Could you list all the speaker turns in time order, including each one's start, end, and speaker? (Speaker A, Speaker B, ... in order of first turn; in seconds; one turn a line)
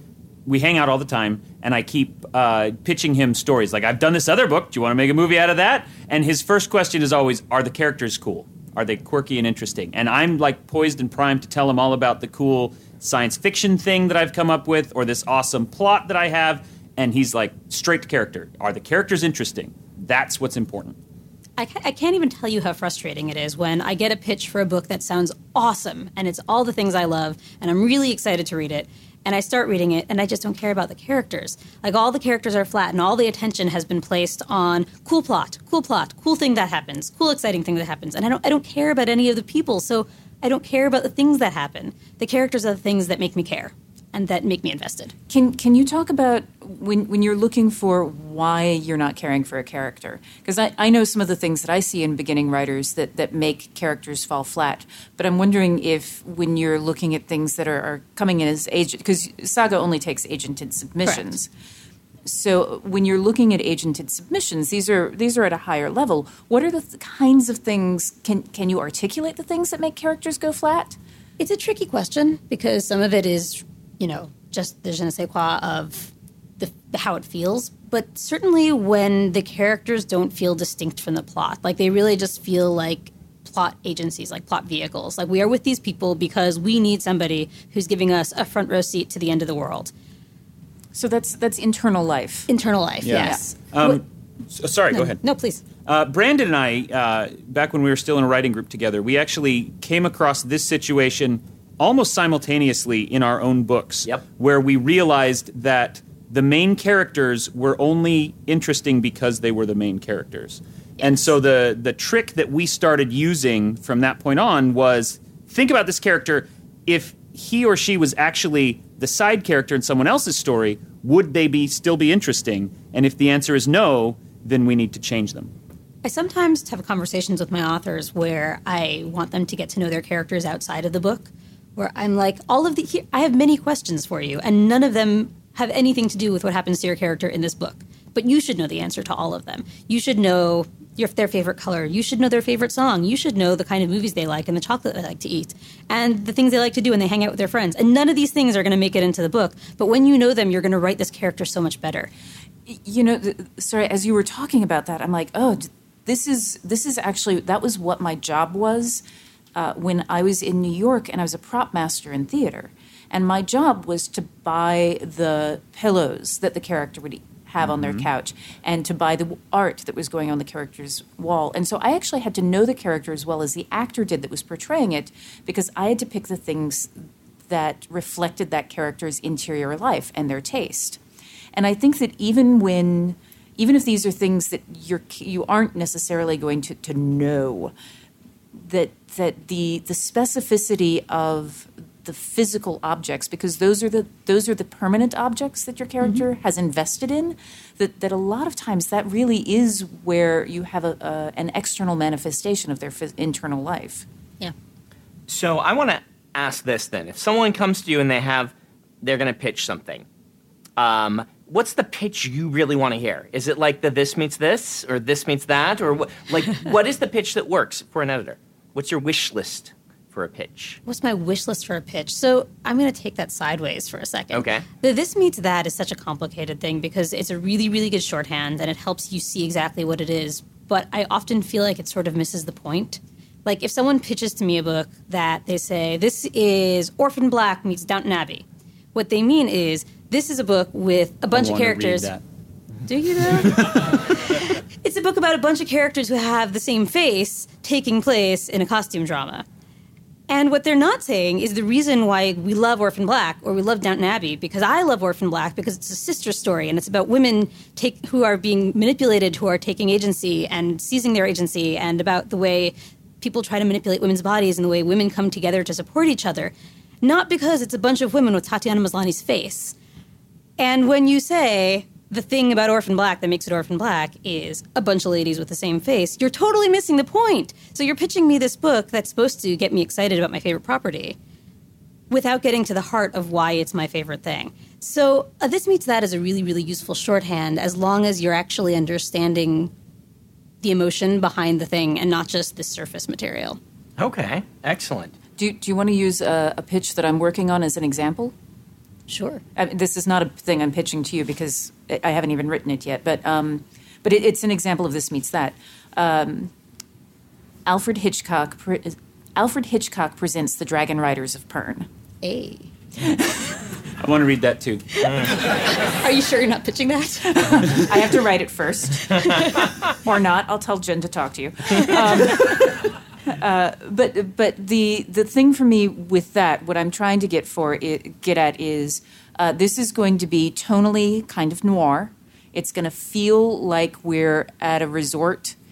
Speaker A: 0.5-21.0
Speaker B: 21.6-45.2
Speaker C: 45.3-61.5
Speaker B: 61.0-61.4
Speaker C: 62.2-71.0
Speaker B: 71.4-89.9
Speaker C: 90.9-92.5
Speaker B: 92.5-94.0
Speaker A: 93.0-95.2
Speaker B: 94.9-95.6
Speaker A: 95.9-125.5
Speaker B: 126.0-152.1
Speaker C: 152.7-159.0
Speaker C: 159.6-181.0
Speaker A: 167.6-168.1
Speaker C: 181.5-187.7
Speaker C: 188.6-204.1
Speaker D: 205.3-210.1
Speaker D: 210.8-220.8
Speaker B: 220.9-242.2
Speaker D: 224.3-224.7
Speaker A: 241.3-242.2
Speaker B: 242.9-249.5
Speaker A: 243.4-243.9
Speaker B: 250.3-269.8
Speaker B: 270.6-281.2
Speaker B: 282.1-289.7
Speaker B: 290.6-293.6
Speaker D: 294.0-295.1
Speaker C: 295.4-298.4
Speaker B: 299.1-299.4
Speaker C: 299.6-306.5
Speaker C: 307.7-311.9
Speaker B: 312.2-312.7
Speaker A: 314.0-314.8
Speaker B: 315.0-318.2
Speaker D: 315.0-315.3
Speaker C: 317.9-319.2
Speaker B: 319.0-319.9
Speaker C: 320.0-335.6